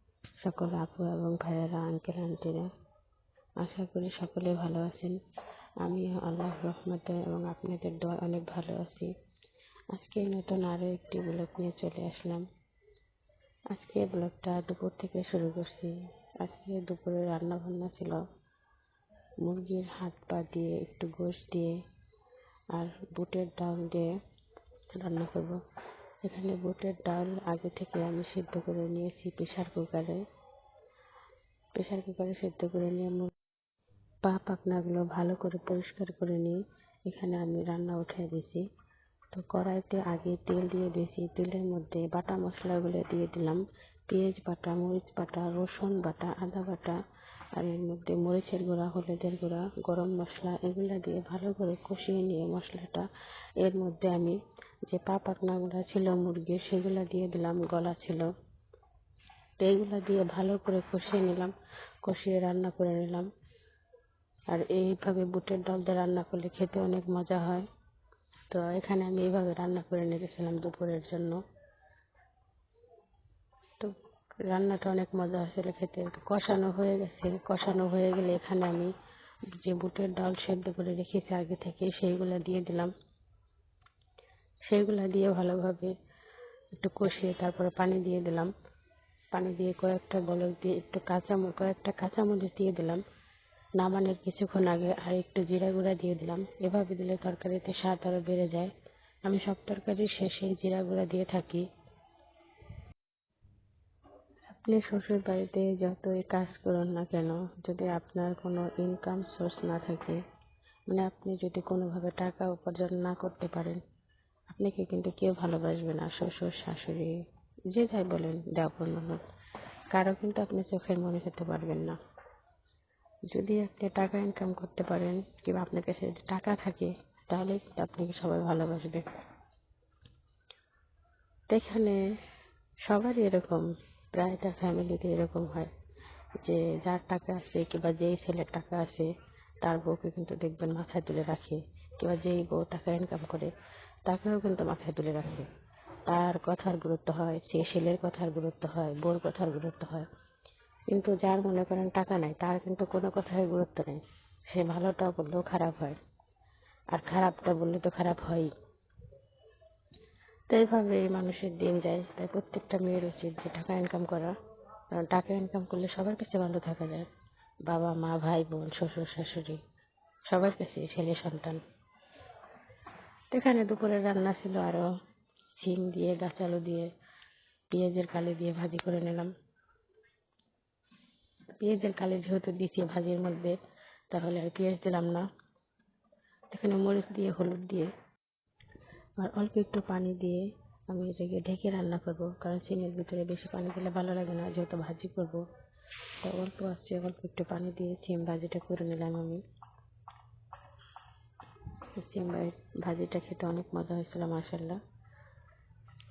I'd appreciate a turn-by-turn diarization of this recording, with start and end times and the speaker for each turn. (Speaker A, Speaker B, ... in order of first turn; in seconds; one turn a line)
Speaker A: 0.4-2.7
Speaker A: 3.6-5.2
Speaker A: 5.8-9.1
Speaker A: 9.9-12.4
Speaker A: 13.7-18.2
Speaker A: 19.4-21.8
Speaker A: 22.7-24.1
Speaker A: 24.9-25.6
Speaker A: 26.2-30.2
Speaker A: 31.7-33.3
Speaker A: 34.2-38.6
Speaker A: 39.3-47.0
Speaker A: 47.5-53.0
Speaker A: 53.6-58.3
Speaker A: 59.6-61.5
Speaker A: 62.0-63.3
Speaker A: 64.5-67.7
Speaker A: 68.5-71.4
Speaker A: 73.8-78.9
Speaker A: 79.5-82.9
Speaker A: 84.7-85.9
Speaker A: 86.7-88.5
Speaker A: 89.3-93.0
Speaker A: 93.8-98.7
Speaker A: 99.2-101.7
Speaker A: 104.5-110.2
Speaker A: 110.9-113.8
Speaker A: 114.5-117.2
Speaker A: 117.7-119.2
Speaker A: 119.9-122.0
Speaker A: 123.3-129.0
Speaker A: 131.5-132.0
Speaker A: 132.8-135.7
Speaker A: 136.4-139.1
Speaker A: 139.6-143.5
Speaker A: 144.0-145.5
Speaker A: 146.1-150.1
Speaker A: 150.9-156.0
Speaker A: 156.9-158.5
Speaker A: 160.5-164.3
Speaker A: 164.9-167.1
Speaker A: 167.7-169.6
Speaker A: 170.3-171.6
Speaker A: 173.3-174.9
Speaker A: 175.5-176.9
Speaker A: 177.7-179.3
Speaker A: 181.6-183.6
Speaker A: 184.1-185.3
Speaker A: 186.5-187.9
Speaker A: 189.2-195.4
Speaker A: 196.2-199.4
Speaker A: 202.0-204.8